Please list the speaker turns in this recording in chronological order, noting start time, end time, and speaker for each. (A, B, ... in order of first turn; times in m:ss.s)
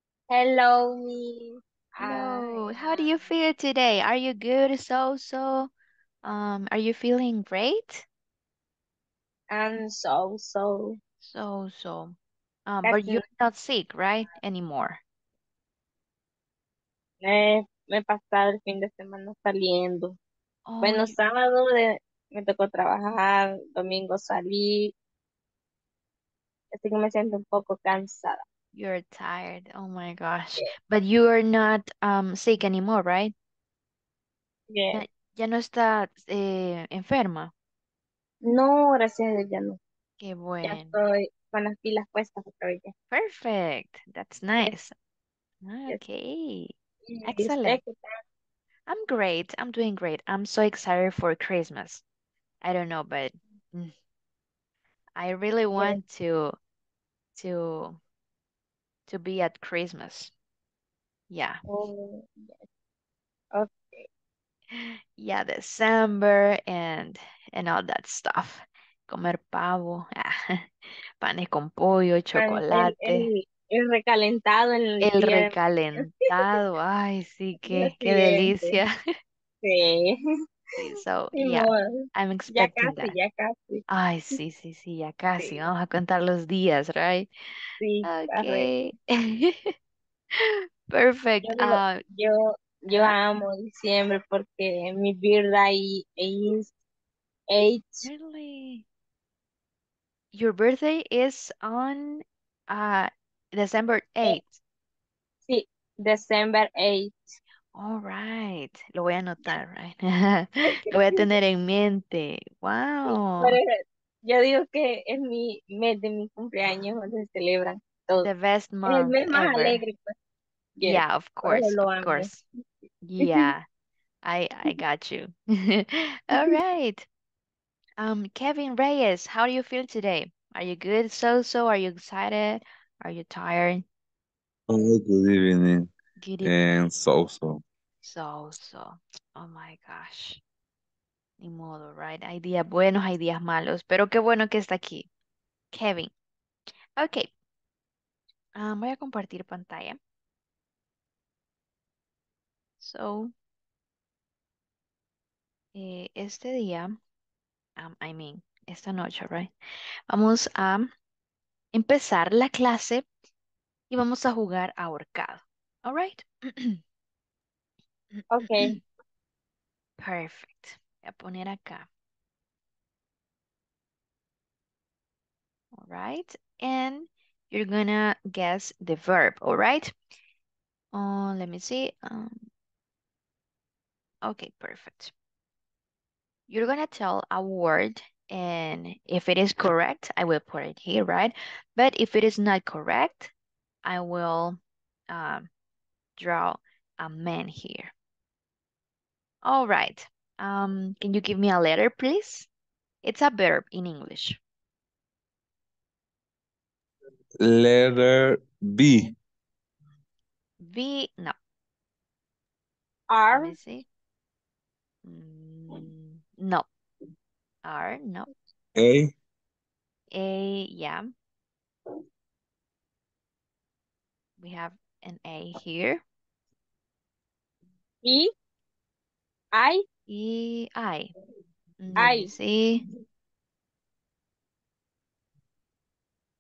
0:00.3-0:03.3 A
0:02.0-0:05.7 B
0:06.2-0:08.0 B
0:09.5-0:11.0 A
0:11.2-0:12.2 B
0:12.7-0:15.0 B
0:12.8-0:13.2 A
0:17.2-0:20.2 A
0:20.7-0:21.2 B
0:20.8-0:24.9 A
0:26.7-0:28.4 A
0:28.7-0:33.3 B
0:34.7-0:35.0 A
0:34.9-0:37.5 B
0:38.4-0:39.8 A
0:40.2-0:41.0 B
0:40.6-0:42.9 A
0:43.1-0:44.9 B
0:45.6-0:46.7 B
0:47.1-0:48.2 A
0:47.2-0:47.8 B
0:48.9-0:52.0 B
0:52.6-0:53.9 B
0:55.2-0:56.6 B
0:55.8-0:56.0 A
0:57.4-0:58.0 B
0:59.1-1:00.3 B
1:01.3-1:01.6 B
1:01.7-1:02.6 A
1:03.6-1:04.1 A
1:04.7-1:13.3 B
1:12.4-1:15.5 A
1:15.0-1:18.9 B
1:17.6-1:18.8 A
1:19.6-1:20.1 A
1:20.8-1:23.2 B
1:21.4-1:23.8 A
1:23.9-1:27.3 B
1:27.8-1:28.7 A
1:28.0-1:29.7 B
1:30.3-1:32.0 B
1:31.4-1:36.7 A
1:32.9-1:33.2 B
1:37.5-1:38.0 A
1:38.0-1:38.8 B
1:40.3-1:44.6 B
1:45.5-1:47.2 A
1:47.8-1:53.6 B
1:53.4-1:58.3 A
1:58.2-1:59.8 B
1:58.9-2:00.2 A
2:00.8-2:02.3 A
2:00.8-2:02.4 B
2:03.0-2:03.6 B
2:03.2-2:03.5 A
2:04.2-2:07.1 B
2:08.0-2:13.8 B
2:14.7-2:15.9 C
2:16.2-2:16.6 B
2:16.4-2:17.6 C
2:18.0-2:20.4 B
2:21.4-2:25.1 B
2:25.7-2:26.1 B
2:27.0-2:27.3 B
2:28.6-2:30.0 B
2:32.8-2:33.3 B
2:35.7-2:37.0 B
2:37.8-2:39.5 B
2:40.1-2:40.9 B
2:41.7-2:43.1 B
2:43.9-2:46.8 B
2:48.1-2:48.8 B
2:48.3-2:48.8 A
2:50.0-2:51.9 B
2:55.7-3:00.0 B
3:00.9-3:02.5 B
3:04.2-3:05.1 B
3:06.5-3:13.3 B
3:13.8-3:14.6 B
3:15.1-3:15.5 B
3:16.2-3:17.9 B
3:19.4-3:22.5 B
3:23.0-3:24.4 B
3:27.4-3:29.1 C
3:30.6-3:31.4 B
3:33.1-3:33.6 A
3:33.3-3:33.9 B
3:35.0-3:36.7 B
3:37.6-3:38.3 B
3:38.8-3:39.1 C
3:40.1-3:41.0 B
3:44.4-3:46.0 B
3:48.0-3:48.3 A
3:49.5-3:49.8 A
3:50.1-3:51.1 B
3:51.8-3:52.8 B
3:52.0-3:52.3 A